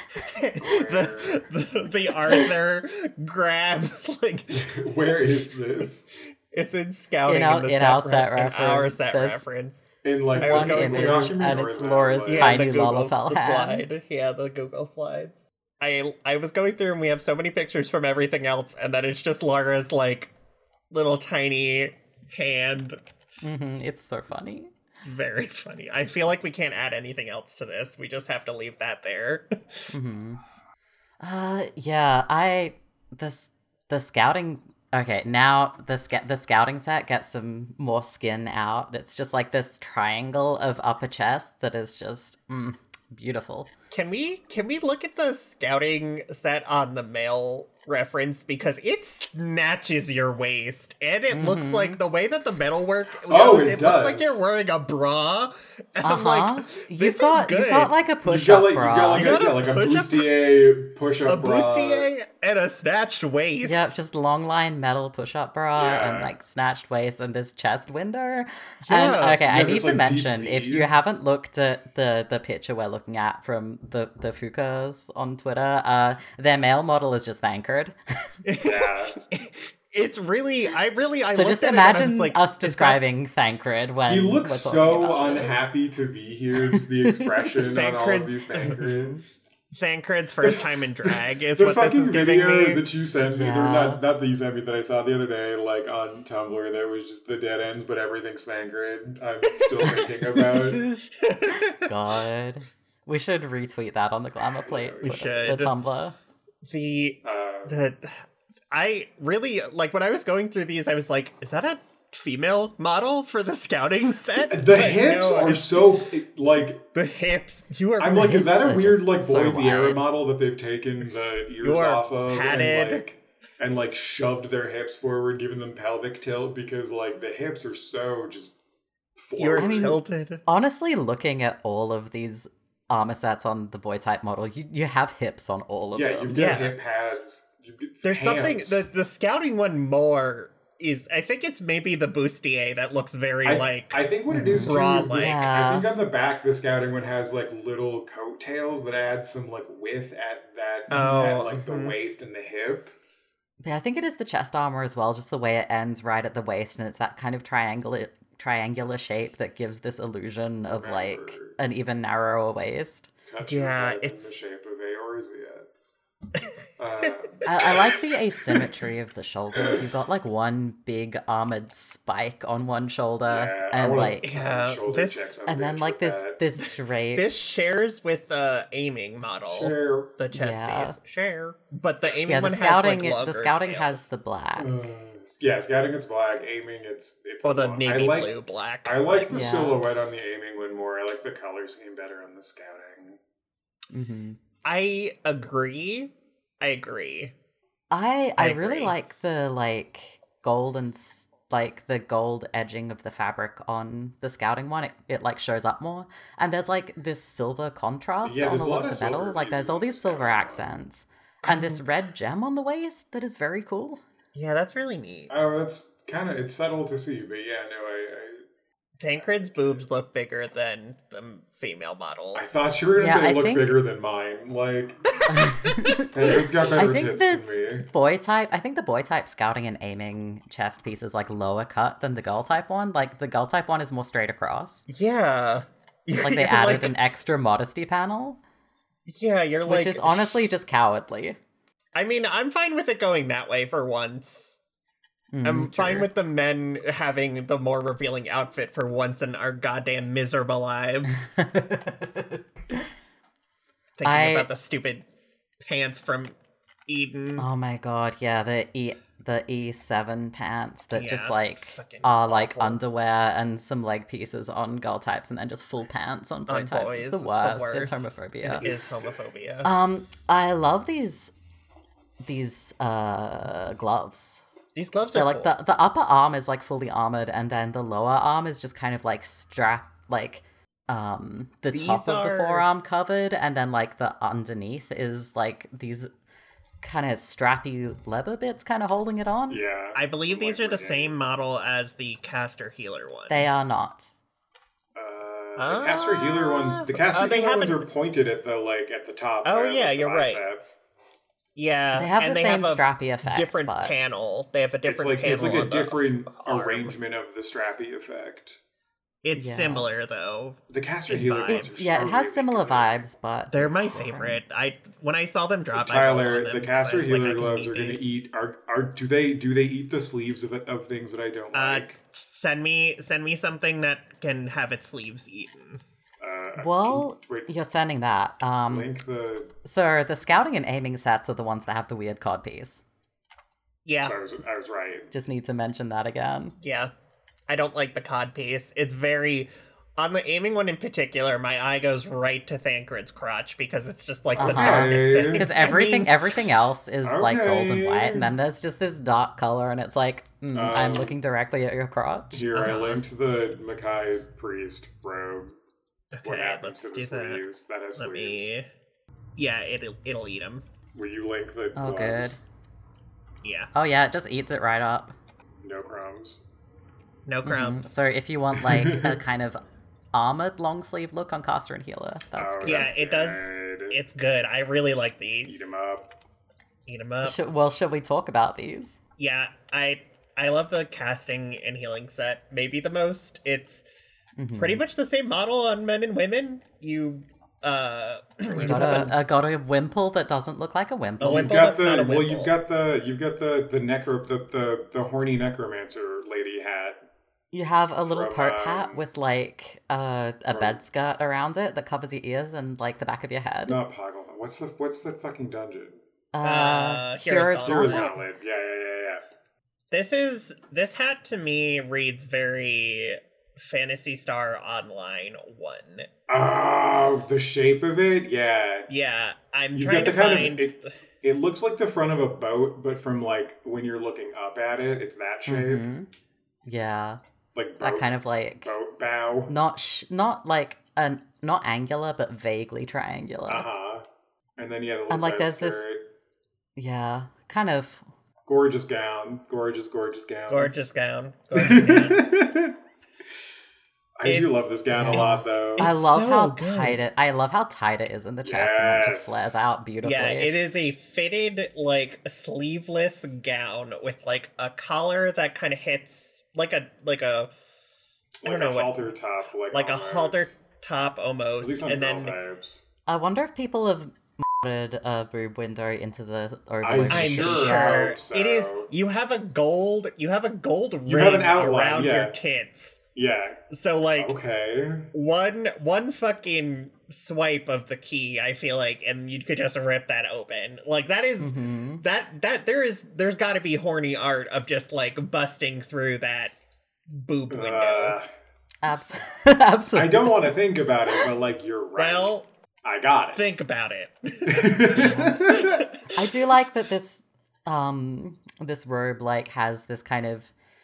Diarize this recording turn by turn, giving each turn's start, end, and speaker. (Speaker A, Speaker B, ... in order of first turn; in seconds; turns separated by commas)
Speaker A: 0.1-4.7, Speaker B: 0.6-1.4, Speaker B: 4.5-6.0, Speaker A: 6.5-11.4, Speaker C: 7.2-9.4, Speaker B: 10.0-12.7, Speaker C: 10.4-13.9, Speaker A: 12.2-20.3, Speaker A: 20.9-23.0, Speaker C: 23.4-24.7, Speaker A: 25.0-29.9, Speaker C: 29.9-30.4, Speaker C: 31.2-43.7, Speaker A: 43.9-58.0, Speaker C: 51.3-52.0, Speaker B: 53.2-54.4, Speaker C: 56.0-59.4, Speaker B: 58.2-62.1, Speaker A: 59.1-60.3, Speaker A: 61.2-63.9, Speaker C: 63.6-77.9, Speaker B: 65.7-66.3, Speaker A: 68.8-69.4, Speaker B: 69.4-70.9, Speaker A: 78.4-83.0, Speaker B: 78.6-79.2, Speaker C: 81.3-85.7, Speaker B: 84.0-89.3, Speaker C: 86.6-87.4, Speaker A: 87.6-88.9, Speaker C: 88.7-89.2, Speaker A: 89.7-92.8, Speaker B: 90.4-100.8, Speaker C: 93.3-94.0, Speaker A: 99.5-101.9, Speaker C: 100.8-106.2, Speaker B: 104.6-105.5, Speaker A: 105.0-105.7, Speaker A: 106.7-115.9, Speaker B: 107.2-107.8, Speaker B: 114.5-116.9, Speaker A: 116.9-118.3, Speaker B: 118.0-128.5, Speaker C: 118.1-120.0, Speaker A: 121.6-123.0, Speaker B: 129.2-130.0, Speaker A: 129.4-130.4, Speaker C: 129.6-136.4, Speaker B: 135.9-138.9, Speaker A: 136.3-136.7, Speaker A: 138.0-145.4, Speaker B: 143.4-152.9, Speaker C: 144.3-145.9, Speaker A: 150.9-151.9, Speaker C: 153.6-163.1, Speaker B: 160.7-161.6, Speaker B: 163.2-165.7, Speaker A: 163.4-164.3, Speaker B: 166.8-167.4, Speaker A: 167.1-168.7, Speaker C: 167.4-174.3, Speaker B: 173.2-176.4, Speaker A: 174.2-175.4, Speaker C: 175.4-177.7, Speaker A: 177.1-184.1, Speaker B: 179.5-180.1, Speaker C: 180.3-181.0, Speaker C: 182.2-184.7, Speaker B: 184.6-193.2, Speaker A: 187.4-189.6, Speaker C: 189.3-189.8, Speaker C: 193.9-194.4, Speaker A: 194.6-197.3, Speaker C: 197.9-214.0, Speaker A: 198.4-198.9, Speaker B: 208.2-210.8, Speaker A: 211.4-211.8, Speaker A: 214.3-215.3, Speaker B: 215.3-218.4, Speaker A: 219.0-222.4, Speaker B: 219.2-219.8, Speaker B: 222.3-225.2, Speaker C: 223.0-223.8, Speaker A: 225.1-226.6, Speaker C: 225.2-226.1, Speaker B: 226.1-227.9, Speaker C: 226.8-234.9, Speaker A: 234.9-236.9, Speaker C: 236.2-238.4, Speaker A: 239.1-240.5, Speaker C: 239.7-241.4, Speaker A: 241.9-244.6, Speaker C: 245.3-246.1, Speaker A: 245.4-251.3, Speaker C: 251.1-252.8, Speaker A: 254.0-255.0, Speaker C: 254.0-254.5, Speaker A: 255.6-256.4, Speaker A: 256.9-257.5, Speaker C: 257.4-268.7, Speaker A: 260.9-262.8, Speaker A: 266.5-269.7, Speaker B: 268.6-269.1, Speaker C: 269.6-271.3, Speaker C: 272.2-274.4, Speaker A: 274.7-275.5, Speaker C: 275.1-286.1, Speaker A: 281.7-282.6, Speaker C: 286.8-289.6, Speaker B: 289.5-291.2, Speaker A: 289.9-293.5, Speaker C: 293.3-294.1, Speaker B: 294.9-300.6, Speaker A: 295.6-297.9, Speaker A: 299.4-300.4, Speaker A: 301.6-306.9, Speaker C: 301.9-303.9, Speaker B: 304.9-308.6, Speaker A: 309.2-311.7, Speaker C: 309.3-309.9, Speaker B: 310.7-313.0, Speaker C: 311.5-314.4, Speaker A: 313.5-318.1, Speaker B: 315.7-321.9, Speaker A: 321.5-325.8, Speaker B: 326.2-327.5, Speaker C: 326.6-328.9, Speaker B: 328.7-329.5, Speaker C: 329.6-332.8, Speaker A: 333.9-334.2, Speaker B: 334.0-335.1, Speaker C: 335.1-336.6, Speaker A: 336.6-336.9, Speaker A: 337.5-346.4, Speaker B: 344.4-345.7, Speaker C: 344.4-352.4, Speaker B: 347.0-348.3, Speaker B: 350.5-351.2, Speaker B: 352.3-355.6, Speaker A: 352.5-353.0, Speaker A: 356.1-357.4, Speaker B: 356.2-358.5, Speaker A: 357.9-358.6, Speaker A: 359.4-360.6, Speaker B: 360.9-362.4, Speaker C: 361.8-362.4, Speaker A: 363.4-363.7, Speaker C: 363.7-365.1, Speaker B: 365.6-366.4, Speaker A: 367.2-367.9, Speaker C: 367.4-369.6, Speaker B: 368.5-369.2, Speaker C: 370.1-372.9, Speaker B: 372.3-374.0, Speaker A: 372.6-375.7, Speaker B: 375.4-376.1, Speaker A: 376.9-377.4, Speaker C: 377.2-379.0, Speaker A: 379.2-383.8, Speaker C: 384.4-384.8, Speaker A: 384.6-389.1, Speaker B: 388.5-389.1, Speaker C: 388.6-391.7, Speaker A: 391.2-392.5, Speaker B: 391.2-397.1, Speaker C: 397.5-403.8, Speaker B: 398.1-399.0, Speaker B: 400.5-400.8, Speaker B: 403.7-406.0, Speaker C: 406.3-408.1, Speaker A: 406.4-408.1, Speaker B: 407.6-409.2, Speaker A: 409.9-416.1, Speaker B: 416.3-418.9, Speaker A: 418.9-420.9, Speaker B: 419.7-425.9, Speaker C: 425.5-426.1, Speaker C: 426.6-427.2, Speaker B: 427.5-428.1, Speaker C: 427.8-428.7, Speaker B: 428.6-429.5, Speaker C: 429.5-433.7, Speaker B: 433.5-434.1, Speaker B: 434.6-436.1, Speaker C: 435.1-435.9, Speaker C: 436.8-438.0, Speaker B: 438.4-440.8, Speaker A: 440.5-442.4, Speaker B: 441.5-442.8, Speaker B: 444.2-445.9, Speaker A: 444.2-447.0, Speaker C: 444.9-450.5, Speaker B: 448.4-449.6, Speaker A: 450.0-457.5, Speaker B: 458.4-460.6, Speaker A: 458.4-458.9, Speaker A: 459.7-462.4, Speaker B: 461.6-462.8, Speaker C: 463.1-468.0, Speaker B: 466.8-468.9, Speaker A: 467.1-473.0, Speaker B: 471.1-472.4, Speaker B: 473.1-475.1, Speaker A: 473.7-474.3, Speaker A: 475.1-486.5, Speaker C: 481.4-482.0, Speaker A: 487.1-488.2, Speaker B: 487.5-488.3, Speaker C: 488.8-490.5, Speaker B: 489.9-493.4, Speaker A: 492.0-492.4, Speaker A: 493.3-496.2, Speaker B: 494.4-495.9, Speaker C: 494.9-495.5, Speaker C: 496.1-500.5